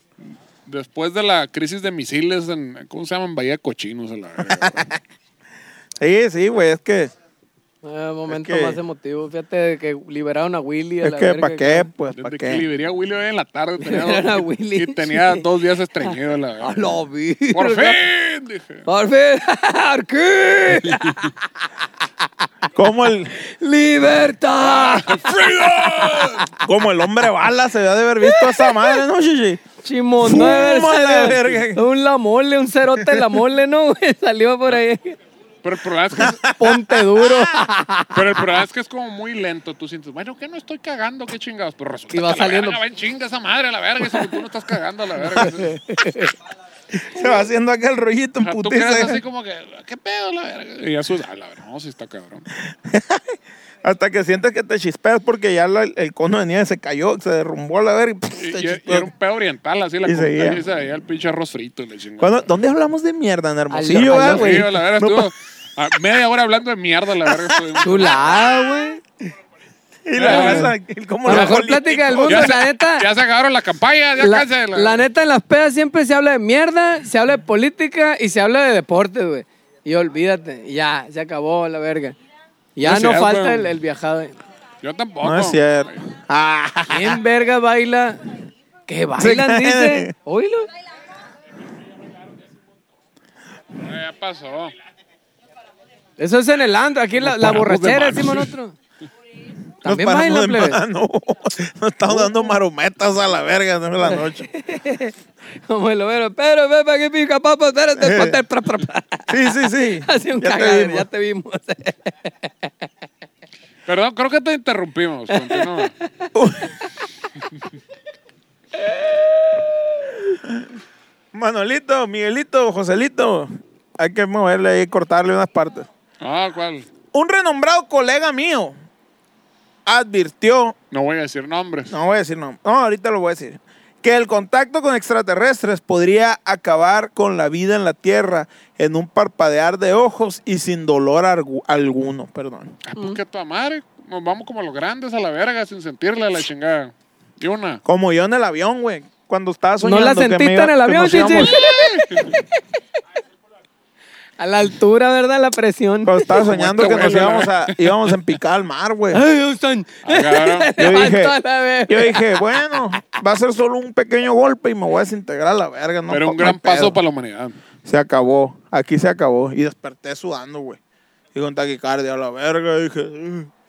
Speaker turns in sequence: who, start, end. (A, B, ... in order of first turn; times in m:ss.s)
0:00.6-0:04.8 A
0:04.5-0:05.0 B
0:06.0-0:07.1 B
0:07.8-0:11.9 C
0:08.3-0:08.8 B
0:11.0-0:12.6 B
0:12.1-0:17.0 A
0:13.8-0:15.4 C
0:16.0-0:18.0 C
0:17.5-0:18.8 A
0:18.8-0:21.3 C
0:22.7-0:23.3 B
0:23.4-0:26.5 C
0:24.6-0:26.5 A
0:26.6-0:29.6 B
0:28.2-0:29.0 C
0:29.8-0:35.2 C
0:30.2-0:31.8 B
0:33.0-0:33.2 B
0:35.6-0:36.4 A
0:36.2-0:37.5 B
0:36.5-0:38.4 C
0:38.1-0:45.7 A
0:42.1-0:42.8 C
0:45.4-0:46.3 C
0:46.9-0:49.2 B
0:48.4-0:52.4 A
0:52.7-0:59.1 B
0:58.4-1:02.5 A
1:00.0-1:00.6 B
1:02.2-1:05.3 B
1:03.7-1:04.6 C
1:04.0-1:08.3 A
1:07.2-1:07.7 B
1:07.8-1:09.0 C
1:08.3-1:08.9 B
1:10.0-1:12.6 B
1:10.2-1:10.7 A
1:10.2-1:10.7 C
1:11.2-1:13.1 C
1:11.3-1:11.6 A
1:12.2-1:15.0 A
1:14.2-1:22.1 C
1:22.8-1:24.3 C
1:22.8-1:23.7 A
1:24.8-1:26.0 A
1:25.2-1:27.2 B
1:26.9-1:28.2 C
1:28.9-1:30.7 C
1:29.2-1:30.1 B
1:33.8-1:34.7 A
1:36.2-1:38.7 C
1:37.2-1:38.5 A
1:39.8-1:44.5 B
1:39.8-1:40.8 C
1:42.1-1:42.5 C
1:44.0-1:45.1 C
1:45.7-1:52.7 C
1:48.0-1:48.4 B
1:49.3-1:51.1 B
1:53.8-1:55.9 A
1:55.3-1:55.9 C
1:56.3-1:56.8 B
1:58.8-1:59.7 C
2:01.3-2:05.9 B
2:06.2-2:06.9 A
2:07.1-2:08.7 B
2:09.8-2:10.7 B
2:10.9-2:11.9 A
2:11.9-2:22.8 B
2:22.8-2:27.8 A
2:27.8-2:31.6 B
2:29.8-2:32.6 C
2:31.6-2:32.2 A
2:34.4-2:36.4 C
2:36.0-2:39.2 B
2:36.3-2:38.1 A
2:39.1-2:42.4 C
2:40.0-2:40.7 A
2:40.8-2:41.3 B
2:41.9-2:47.0 B
2:46.1-2:47.6 A
2:47.8-2:50.8 B
2:51.3-2:53.5 B